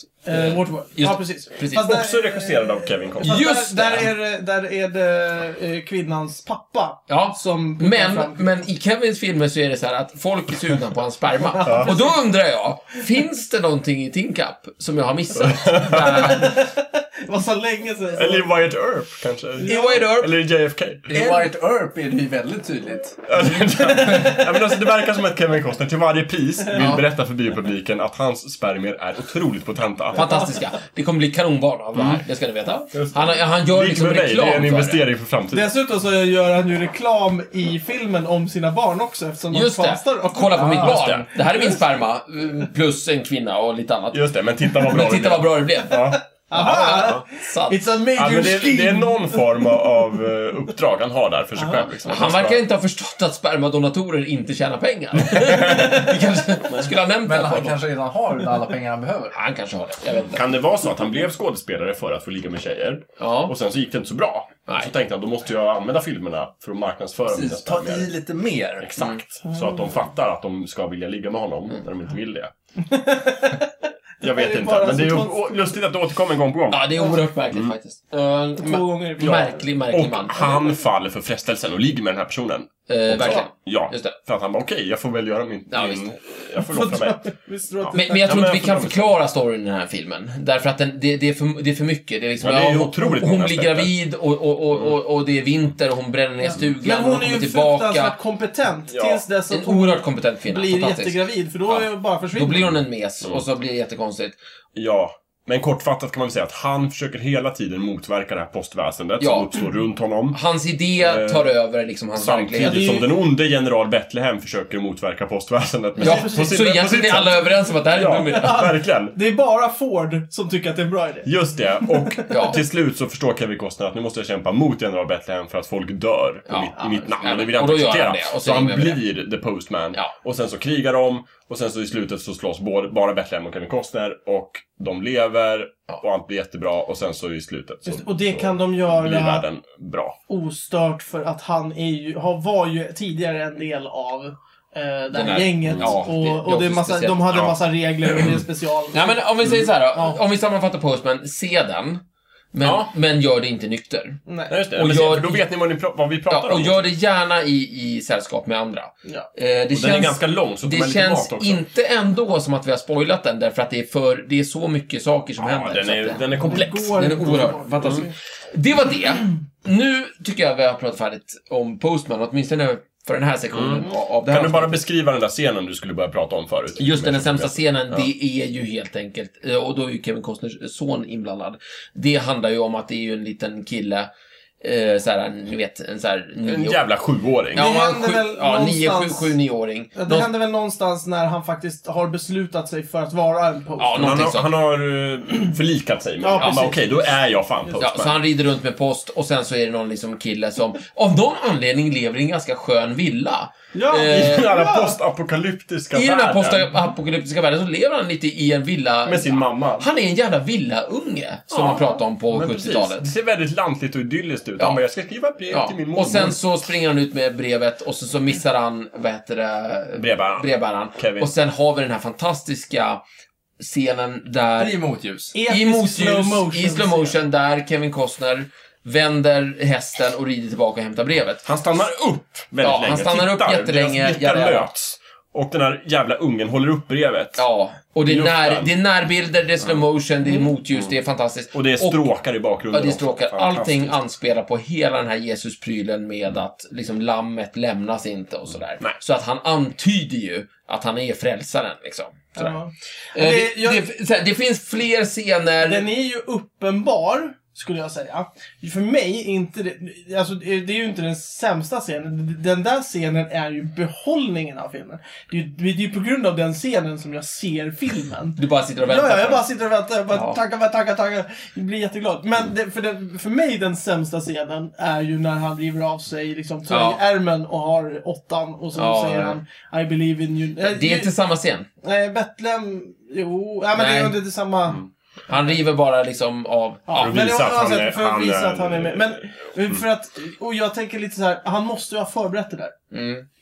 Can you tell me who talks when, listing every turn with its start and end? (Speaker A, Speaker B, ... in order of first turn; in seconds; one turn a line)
Speaker A: 0.3-8.5
Speaker B: 0.3-1.9
Speaker C: 1.8-3.4
Speaker B: 3.2-4.1
Speaker B: 7.1-16.6
Speaker A: 11.4-12.1
Speaker C: 11.6-11.9
Speaker C: 15.3-16.5
Speaker A: 16.1-18.5
Speaker C: 18.1-21.2
Speaker A: 19.6-20.1
Speaker B: 19.6-20.3
Speaker D: 21.1-24.4
Speaker C: 23.3-30.3
Speaker A: 23.8-24.6
Speaker B: 26.7-27.0
Speaker B: 30.1-35.0
Speaker C: 31.9-32.2
Speaker C: 32.9-35.7
Speaker A: 35.5-41.8
Speaker B: 39.5-47.8
Speaker C: 40.6-41.3
Speaker C: 44.1-46.2
Speaker A: 46.1-49.9
Speaker C: 46.9-47.2
Speaker C: 48.1-52.6
Speaker A: 51.6-51.9
Speaker B: 52.0-57.8
Speaker C: 55.3-56.0
Speaker C: 56.7-56.9
Speaker D: 57.2-59.4
Speaker B: 59.3-60.4
Speaker C: 60.3-68.1
Speaker B: 63.2-63.5
Speaker D: 67.3-68.9
Speaker C: 68.8-72.5
Speaker B: 69.0-69.2
Speaker A: 69.5-69.8
Speaker A: 72.8-75.6
Speaker C: 74.2-76.9
Speaker B: 76.7-80.5
Speaker A: 78.6-79.7
Speaker C: 79.9-87.2
Speaker B: 82.9-84.2
Speaker B: 85.7-86.1
Speaker A: 86.6-88.3
Speaker C: 87.8-89.2
Speaker B: 87.9-98.2
Speaker C: 92.4-93.9
Speaker A: 96.8-102.8
Speaker C: 98.9-99.2
Speaker B: 99.5-104.4
Speaker C: 104.8-110.4
Speaker B: 109.2-109.5
Speaker B: 110.3-112.9
Speaker C: 111.0-111.5
Speaker C: 112.2-119.2
Speaker A: 112.6-113.1
Speaker A: 116.0-116.6
Speaker B: 116.0-118.7
Speaker A: 118.1-122.4
Speaker C: 121.2-140.2
Speaker B: 122.3-122.6
Speaker B: 126.5-129.0
Speaker A: 137.9-139.4
Speaker A: 140.3-149.2
Speaker B: 145.1-147.5
Speaker C: 145.7-146.0
Speaker B: 148.9-152.0
Speaker B: 152.5-154.2
Speaker C: 152.6-152.9
Speaker A: 154.3-154.6
Speaker C: 154.5-156.9
Speaker B: 154.7-155.4
Speaker B: 156.3-174.8
Speaker C: 159.7-161.6
Speaker C: 165.4-168.0
Speaker A: 166.4-168.1
Speaker C: 173.5-178.1
Speaker B: 176.8-184.1
Speaker B: 184.6-186.8
Speaker C: 186.4-187.7
Speaker B: 187.5-190.3
Speaker A: 187.6-189.4
Speaker A: 189.9-194.2
Speaker B: 193.8-194.5
Speaker C: 193.9-198.2
Speaker A: 196.2-197.1
Speaker B: 196.4-196.7
Speaker B: 197.8-204.5
Speaker A: 203.7-205.0
Speaker C: 204.0-206.7
Speaker B: 205.9-213.1
Speaker C: 209.1-209.9
Speaker C: 211.5-216.4
Speaker B: 215.5-223.0
Speaker C: 220.0-221.3
Speaker B: 223.6-224.8
Speaker D: 224.6-225.4
Speaker A: 225.3-227.2
Speaker B: 225.5-231.5
Speaker C: 231.4-237.4
Speaker B: 232.6-234.7
Speaker B: 237.4-242.1
Speaker C: 238.1-238.7
Speaker C: 241.5-244.0
Speaker B: 242.7-252.6
Speaker A: 252.3-253.9
Speaker B: 253.1-255.9
Speaker A: 255.6-281.1
Speaker B: 268.4-269.5
Speaker B: 270.1-270.4
Speaker B: 276.7-277.0
Speaker B: 278.8-279.4
Speaker B: 280.6-281.7
Speaker A: 281.8-284.8
Speaker B: 283.7-284.2
Speaker B: 285.3-287.2
Speaker A: 286.9-292.7
Speaker C: 287.0-289.8
Speaker B: 292.9-293.3